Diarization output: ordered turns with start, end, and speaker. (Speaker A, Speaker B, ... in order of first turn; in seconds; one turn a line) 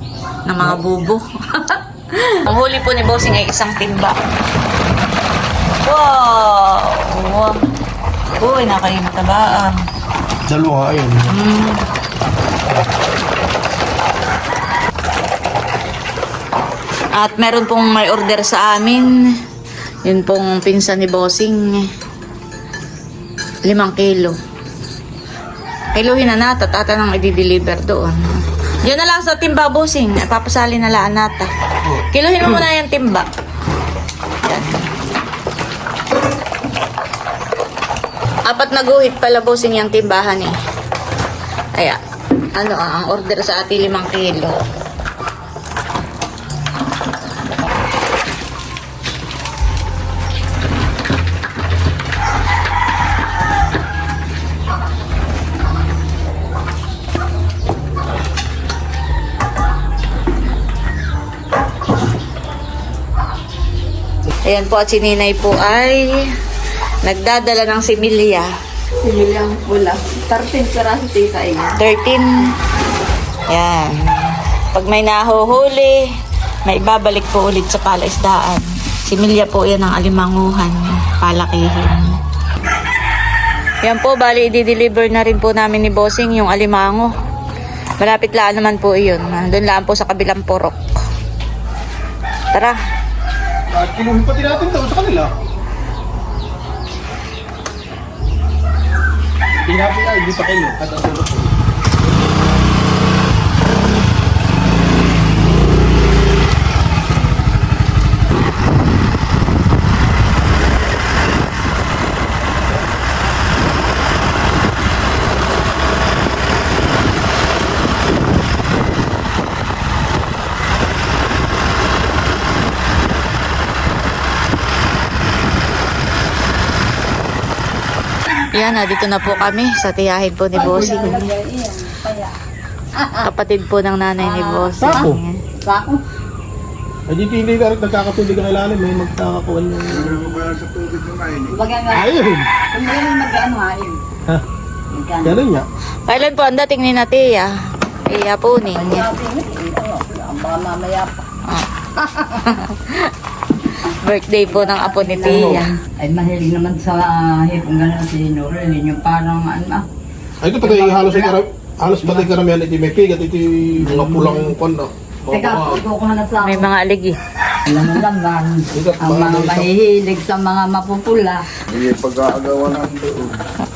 Speaker A: 0.5-4.2
Speaker A: 5.8-7.6
Speaker A: 8.4-9.8
Speaker B: 10.5-11.3
Speaker A: 11.3-11.8
Speaker A: 17.1-19.1
Speaker A: 20.1-21.9
Speaker A: 23.7-24.4
Speaker A: 25.9-28.2
Speaker A: 28.8-33.3
Speaker A: 34.4-34.9
Speaker A: 38.5-40.5
Speaker A: 42.5-44.6
Speaker A: 64.5-66.3
Speaker A: 67.0-68.5
Speaker C: 69.0-71.8
Speaker A: 71.8-72.3
Speaker A: 73.5-76.0
Speaker A: 76.7-82.2
Speaker A: 83.8-87.1
Speaker A: 88.0-90.8
Speaker B: 93.7-95.3
Speaker B: 99.6-101.5
Speaker A: 128.5-131.2
Speaker C: 130.6-132.4
Speaker B: 130.6-131.2
Speaker C: 132.9-133.3
Speaker A: 133.2-135.4
Speaker C: 134.2-135.1
Speaker B: 134.8-135.2
Speaker C: 135.6-136.0
Speaker B: 137.1-140.5
Speaker D: 140.2-141.5
Speaker C: 141.5-144.0
Speaker B: 141.9-142.5
Speaker C: 144.9-145.4
Speaker B: 145.2-145.7
Speaker A: 146.1-149.1
Speaker C: 148.7-151.3
Speaker C: 152.0-152.5
Speaker A: 152.2-153.1
Speaker A: 153.9-155.8
Speaker C: 154.5-159.9
Speaker B: 155.3-155.7
Speaker B: 160.4-165.8
Speaker C: 160.6-161.4
Speaker C: 163.9-164.4
Speaker C: 165.3-166.7
Speaker A: 166.4-167.2
Speaker C: 167.6-171.5
Speaker B: 168.7-169.7
Speaker D: 171.7-173.4